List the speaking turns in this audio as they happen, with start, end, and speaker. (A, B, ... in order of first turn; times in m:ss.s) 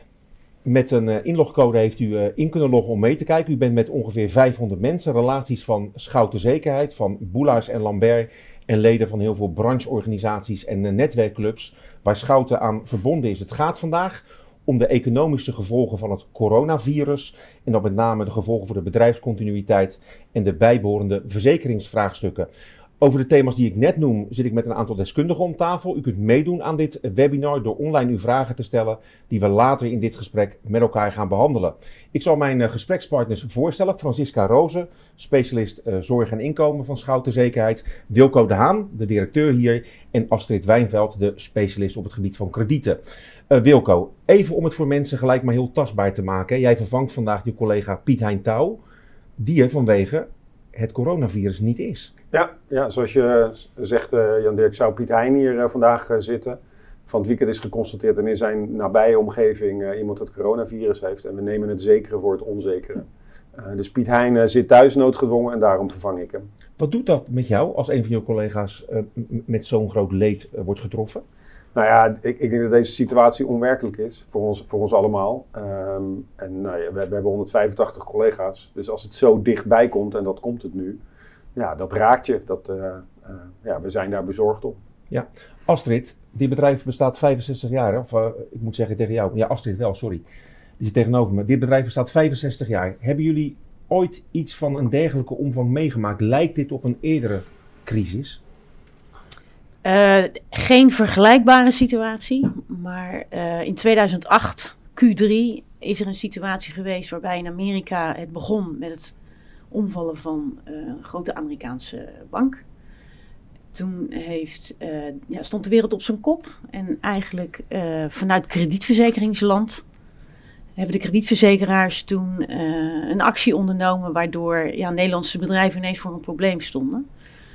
0:00.6-0:22.5 A
0:23.0-0:48.8 A
0:49.4-0:52.1 A
0:52.3-1:06.5 B
1:06.8-1:11.2 A
1:11.8-1:21.0 B
1:21.5-1:24.8 B
1:25.1-1:30.2 A
1:30.8-1:38.4 A
1:39.8-1:49.1 C
1:49.7-1:52.6 C
1:53.7-1:59.8 C
2:00.8-2:07.1 C